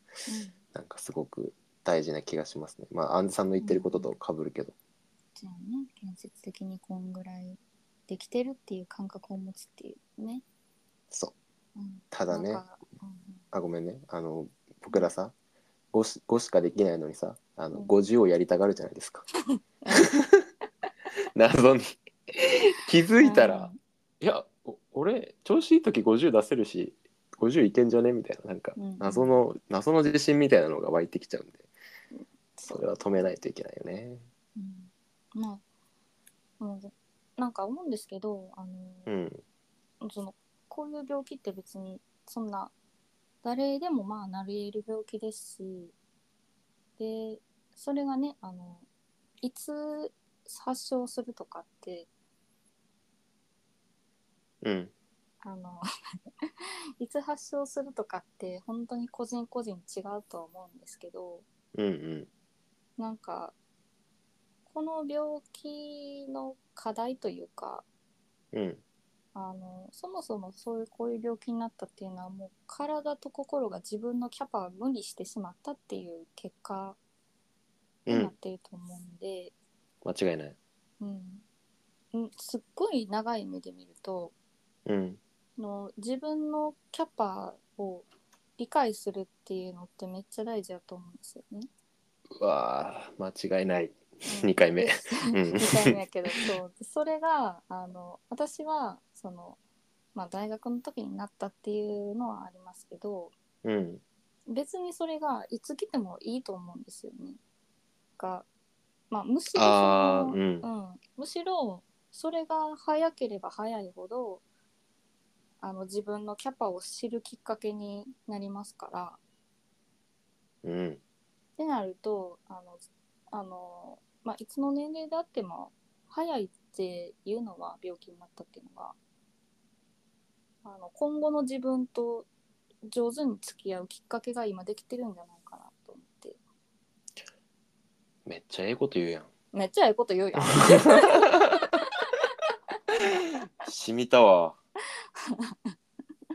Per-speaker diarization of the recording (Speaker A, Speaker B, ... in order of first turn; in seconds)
Speaker A: 0.3-0.6, 3.6-4.1, 5.3-10.4, 11.7-13.5, 19.8-20.1, 23.2-23.8, 28.8-29.4, 32.1-33.2, 34.5-35.6, 36.6-39.1, 40.0-42.7, 43.4-45.9, 47.0-48.9, 49.4-52.1, 55.4-55.8, 57.0-61.4, 63.0-63.5, 64.7-67.8, 69.3-77.0, 78.1-79.5, 81.0-81.4, 82.1-84.3, 85.6-91.7, 94.3-99.6, 100.1-103.3, 104.5-107.4, 108.2-108.5, 109.1-114.4, 115.6-119.2, 121.6-129.0, 130.6-132.3, 132.9-136.4, 139.5-141.3, 145.2-145.7
Speaker B: 0.7-4.7, 12.1-12.6, 13.5-15.3, 15.9-19.2, 19.9-20.4, 21.3-31.7, 32.7-34.2, 39.1-39.4, 54.6-54.9, 61.7-62.3, 68.5-68.8, 78.0-78.3, 80.0-80.6, 84.8-85.2, 92.3-96.5, 103.6-104.0, 109.5-110.7, 120.6-121.0, 138.2-139.3, 140.5-141.8, 143.6-144.6